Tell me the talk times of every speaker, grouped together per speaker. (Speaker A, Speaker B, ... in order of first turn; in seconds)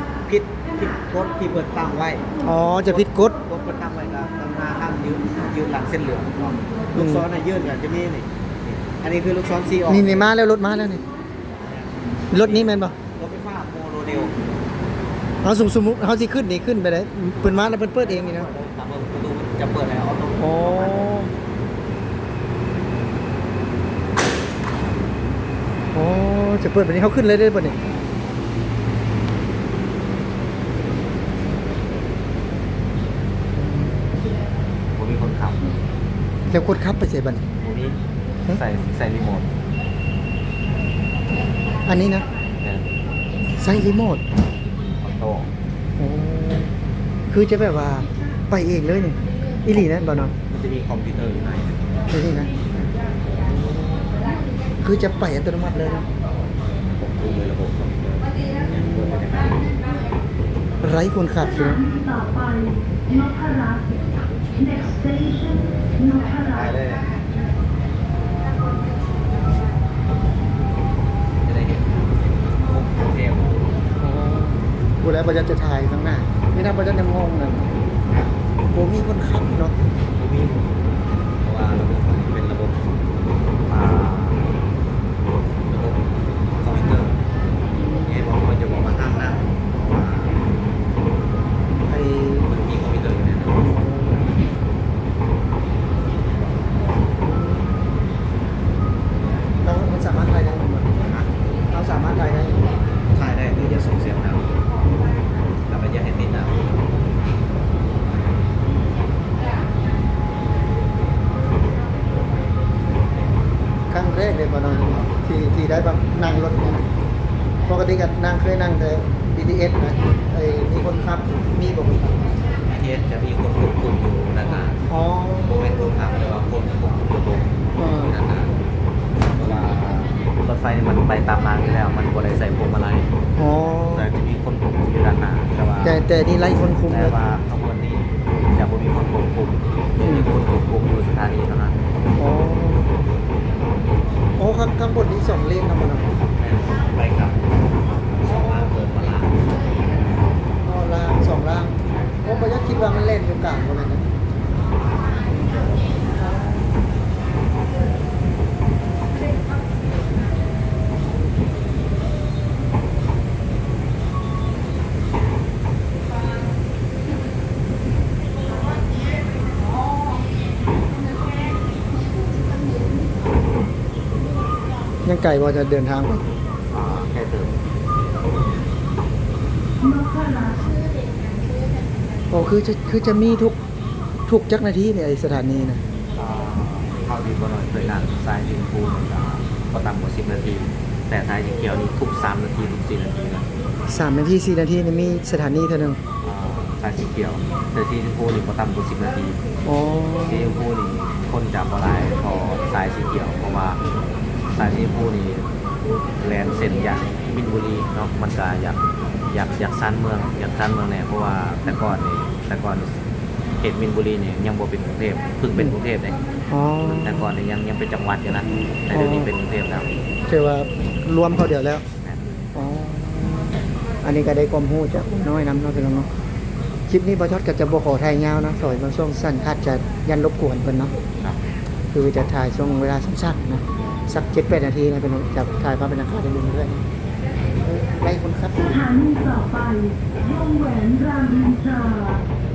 Speaker A: 0.2-2.3, 2.9-10.2, 11.6-14.3, 17.4-21.1, 35.0-35.7, 37.6-38.0, 38.5-39.5, 42.6-42.9, 45.0-45.5, 50.5-51.9, 56.8-59.7, 66.4-67.1, 71.4-72.0, 72.6-73.7, 80.1-80.7, 81.4-82.8, 83.7-84.5, 85.7-86.0, 86.6-87.2, 88.0-90.3, 92.5-93.6, 101.0-101.3, 103.1-104.5, 105.7-106.8, 122.6-124.8, 125.4-128.5, 129.3-133.1, 133.9-136.0, 136.9-141.8, 146.3-147.5, 148.1-149.4, 176.7-177.5, 186.2-193.4, 196.2-199.4, 200.2-203.8, 204.5-205.4, 206.2-208.8, 209.3-212.9, 213.6-216.2, 216.9-219.9
Speaker B: 2.4-3.4, 7.0-7.3, 9.9-11.0, 12.3-12.9, 15.4-18.5, 20.4-21.3, 25.9-27.8, 33.5-34.0, 36.5-37.4, 41.8-42.3, 43.6-44.2, 46.0-46.7, 47.3-50.3, 52.1-52.5, 53.4-54.3, 54.8-56.0, 58.5-59.2, 60.8-61.8, 74.0-77.7, 78.7-79.7, 91.9-92.5, 93.6-94.4, 97.2-98.0, 99.6-100.9, 101.7-102.6, 104.8-105.2, 113.9-116.8, 117.6-122.3, 124.5-125.6, 127.8-128.1, 133.3-134.1, 135.8-137.2, 140.0-140.3, 142.2-142.9, 144.4-146.1, 150.6-154.0, 155.3-156.5, 175.0-176.2, 182.3-183.6, 184.3-185.8, 193.9-196.0, 199.7-200.6, 216.5-217.3, 218.9-219.3, 220.3-221.8, 222.5-226.1, 226.9-230.9, 231.9-236.8, 237.6-238.9
Speaker C: 61.5-63.8, 64.5-66.7, 179.8-180.7, 238.5-242.2